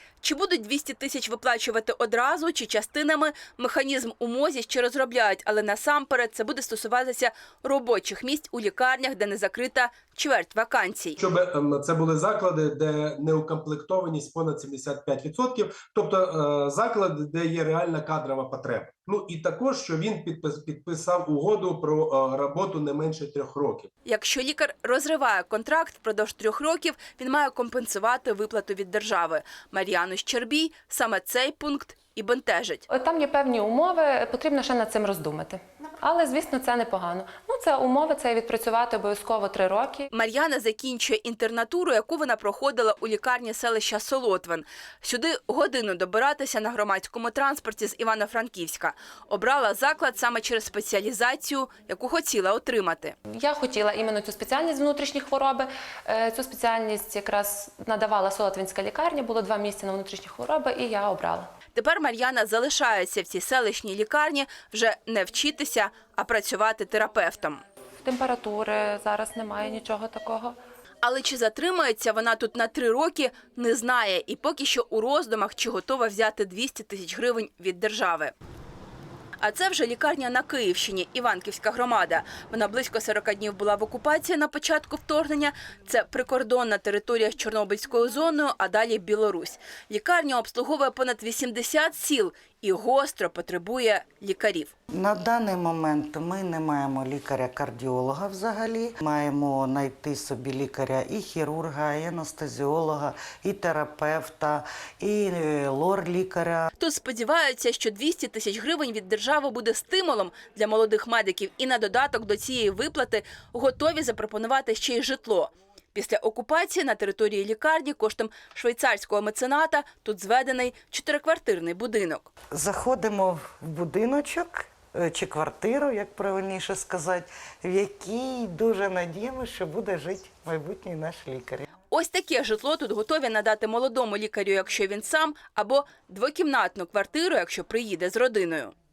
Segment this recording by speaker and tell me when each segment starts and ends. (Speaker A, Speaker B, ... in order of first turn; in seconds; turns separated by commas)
Speaker A: 0.2-11.2, Speaker B: 11.2-23.9, Speaker A: 24.0-32.8, Speaker C: 32.9-40.1, Speaker A: 40.1-53.1, Speaker C: 53.3-61.5, Speaker A: 61.7-67.6, Speaker C: 68.0-70.6, Speaker A: 71.0-78.3, Speaker A: 79.4-94.7, Speaker D: 94.9-106.7, Speaker A: 106.8-122.3, Speaker D: 122.5-131.7, Speaker A: 131.9-138.7